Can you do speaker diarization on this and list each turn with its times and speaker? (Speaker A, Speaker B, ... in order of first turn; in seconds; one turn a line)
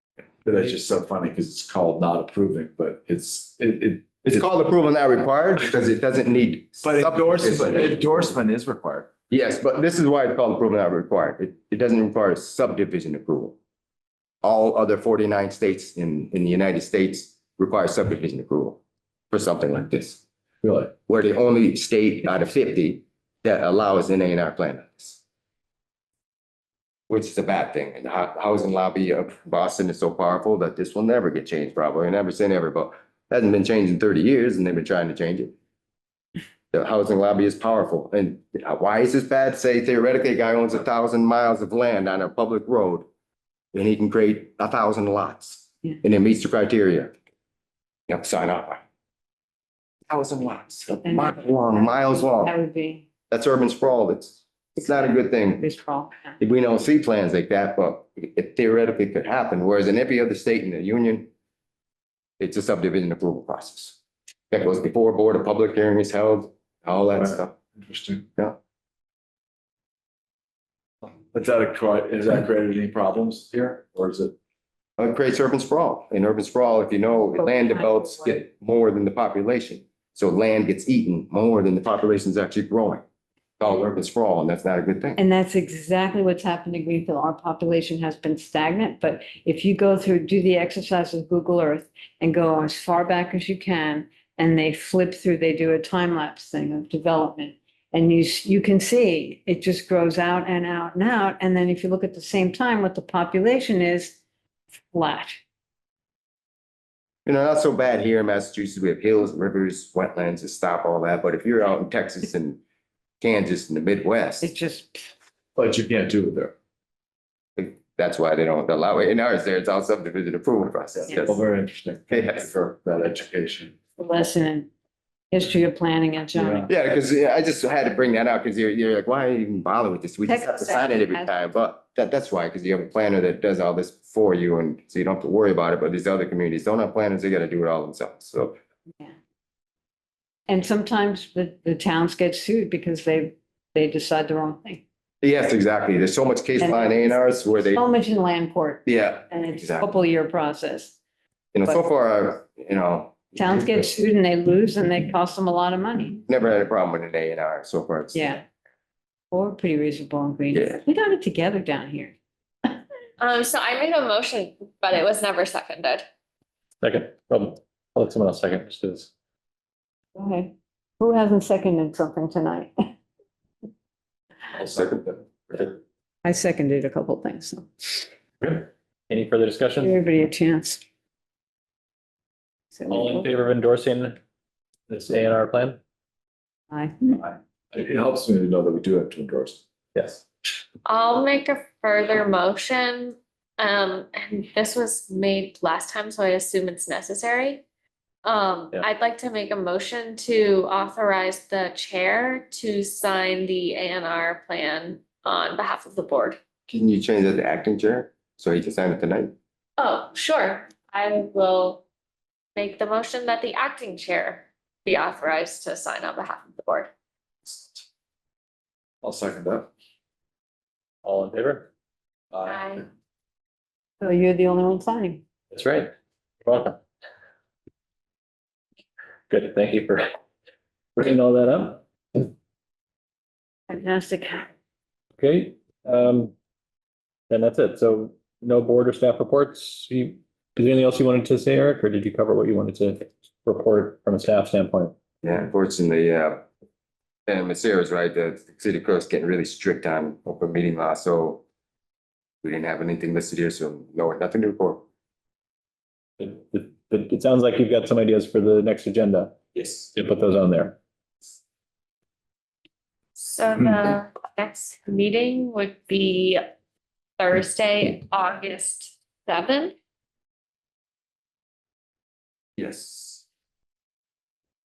Speaker A: 0.4-4.4
Speaker B: 4.2-8.3
Speaker A: 6.8-9.1
Speaker B: 9.3-13.6
Speaker B: 14.4-18.8
Speaker B: 19.3-20.2
Speaker A: 20.6-20.9
Speaker B: 21.1-25.2
Speaker B: 27.1-35.5
Speaker B: 36.7-43.1
Speaker B: 43.7-47.1
Speaker B: 48.1-48.8
Speaker B: 50.1-52.5
Speaker C: 51.0-53.1
Speaker B: 53.3-55.7
Speaker C: 54.8-56.4
Speaker B: 56.4-61.3
Speaker B: 62.4-64.0
Speaker B: 64.5-67.5
Speaker A: 67.8-68.2
Speaker A: 71.3-74.3
Speaker B: 75.0-83.0
Speaker C: 77.7-78.4
Speaker B: 83.6-85.2
Speaker C: 85.2-104.2
Speaker C: 104.9-105.4
Speaker B: 107.3-112.6
Speaker B: 113.2-114.5
Speaker C: 114.4-115.1
Speaker A: 115.6-116.5
Speaker B: 117.6-121.4
Speaker A: 121.1-123.8
Speaker B: 122.1-122.5
Speaker C: 124.0-124.7
Speaker C: 125.3-126.7
Speaker B: 126.7-138.6
Speaker C: 130.3-131.3
Speaker C: 140.5-144.8
Speaker B: 145.2-147.8
Speaker C: 146.6-147.2
Speaker C: 147.7-151.0
Speaker B: 148.9-149.9
Speaker B: 151.5-153.3
Speaker C: 153.3-156.2
Speaker B: 156.3-158.4
Speaker C: 158.1-158.4
Speaker C: 159.3-162.1
Speaker B: 160.5-160.8
Speaker D: 163.2-166.1
Speaker E: 166.8-169.1
Speaker C: 170.2-172.7
Speaker A: 174.6-175.2
Speaker B: 174.7-175.6
Speaker C: 176.2-178.1
Speaker E: 178.4-179.9
Speaker C: 179.8-180.8
Speaker C: 182.7-183.3
Speaker E: 182.9-184.2
Speaker E: 184.9-185.8
Speaker C: 186.7-187.3
Speaker A: 187.7-189.6
Speaker E: 189.9-190.2
Speaker D: 190.8-197.6
Speaker D: 198.2-206.4
Speaker B: 206.7-209.3
Speaker D: 209.8-211.8
Speaker D: 212.6-216.9
Speaker A: 219.0-219.7
Speaker E: 221.0-221.7
Speaker A: 222.3-222.6
Speaker D: 222.4-222.9
Speaker C: 224.0-225.2
Speaker E: 225.5-225.9
Speaker E: 226.4-226.8
Speaker E: 229.3-230.1
Speaker E: 231.0-232.3
Speaker C: 233.7-234.5
Speaker E: 235.2-236.3
Speaker E: 237.3-245.0
Speaker B: 245.2-246.4
Speaker B: 247.3-251.4
Speaker B: 252.4-254.8
Speaker E: 256.2-259.4
Speaker E: 259.9-260.8
Speaker D: 263.2-266.4
Speaker D: 267.2-269.8
Speaker B: 272.6-273.2